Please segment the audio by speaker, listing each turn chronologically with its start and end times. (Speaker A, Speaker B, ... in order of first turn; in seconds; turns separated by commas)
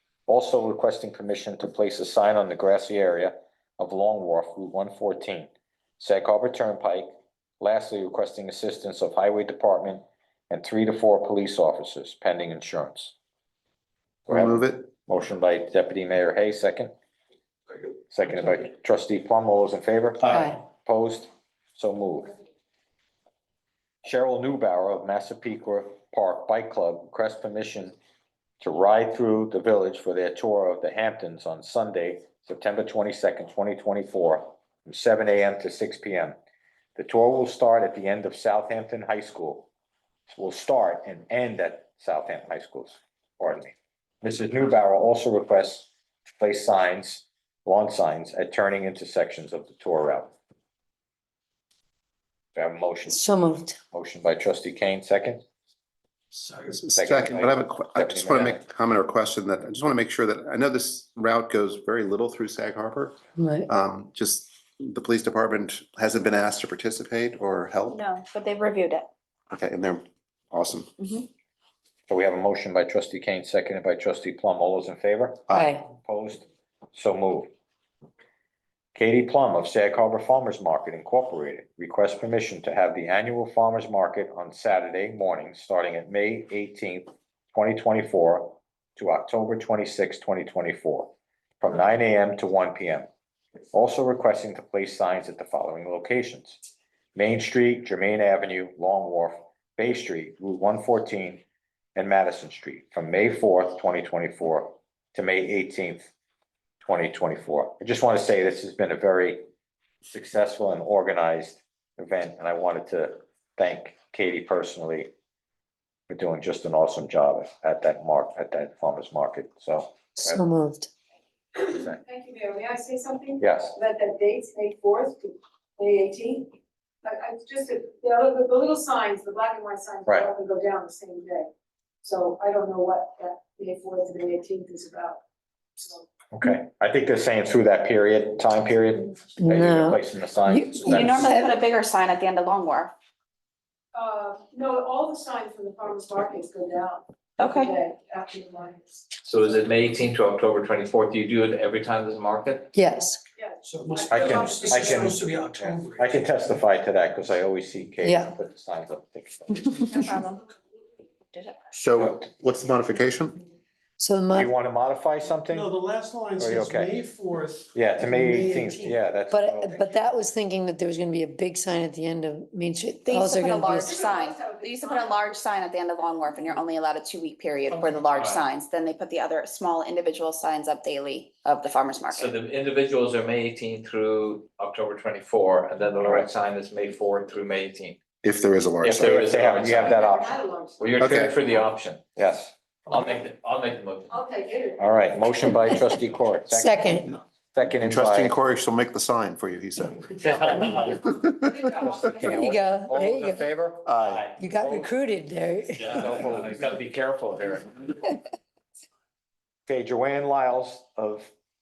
Speaker A: 0.3-7.1, Speaker A: 7.6-13.1, Speaker B: 14.3-14.9, Speaker A: 14.3-16.9, Speaker A: 18.1-22.3, Speaker C: 20.3-20.6, Speaker A: 24.0-27.9, Speaker A: 28.6-36.3, Speaker A: 37.0-39.7, Speaker A: 40.3-50.3, Speaker A: 52.5-53.3, Speaker C: 53.1-53.8, Speaker A: 53.9-55.4, Speaker B: 56.7-68.0, Speaker A: 56.9-58.6, Speaker C: 63.4-63.7, Speaker D: 67.9-69.1, Speaker B: 69.5-70.9, Speaker D: 71.0-71.2, Speaker A: 72.1-77.5, Speaker C: 75.5-75.8, Speaker A: 78.9-93.1, Speaker A: 93.7-96.6, Speaker A: 97.1-101.4, Speaker A: 101.9-106.1, Speaker A: 106.8-109.4, Speaker A: 110.0-115.1, Speaker A: 116.1-120.4, Speaker C: 120.2-120.9, Speaker E: 121.6-131.5, Speaker A: 121.7-122.0, Speaker A: 123.4-123.8, Speaker E: 132.0-135.2, Speaker E: 135.8-136.0, Speaker A: 136.3-141.4, Speaker C: 139.4-141.4, Speaker D: 140.8-142.9, Speaker E: 143.9-149.0, Speaker D: 147.4-147.7, Speaker F: 149.3-152.7, Speaker C: 152.7-153.2, Speaker E: 153.4-155.1, Speaker G: 153.6-156.2, Speaker A: 154.1-160.1, Speaker C: 158.0-158.3, Speaker D: 159.9-160.4, Speaker B: 161.7-163.4, Speaker C: 164.0-164.5, Speaker A: 164.3-165.7, Speaker G: 165.5-169.0, Speaker A: 166.4-166.9, Speaker A: 167.7-170.2, Speaker C: 169.3-174.0, Speaker D: 173.0-182.3, Speaker E: 173.7-175.3, Speaker F: 178.1-178.4, Speaker F: 182.1-188.0, Speaker B: 188.2-189.2, Speaker F: 188.8-189.7, Speaker A: 189.0-190.3, Speaker E: 189.5-191.6, Speaker F: 190.8-192.0, Speaker B: 191.0-191.4, Speaker A: 192.2-192.5, Speaker F: 192.9-194.1, Speaker E: 194.1-194.8, Speaker A: 194.8-198.3, Speaker C: 196.5-197.1, Speaker B: 197.8-200.2, Speaker B: 200.8-201.6, Speaker E: 201.6-202.3, Speaker A: 201.8-204.9, Speaker C: 202.3-203.4, Speaker B: 203.8-204.3, Speaker C: 204.4-205.9, Speaker A: 205.8-207.9, Speaker A: 209.7-211.3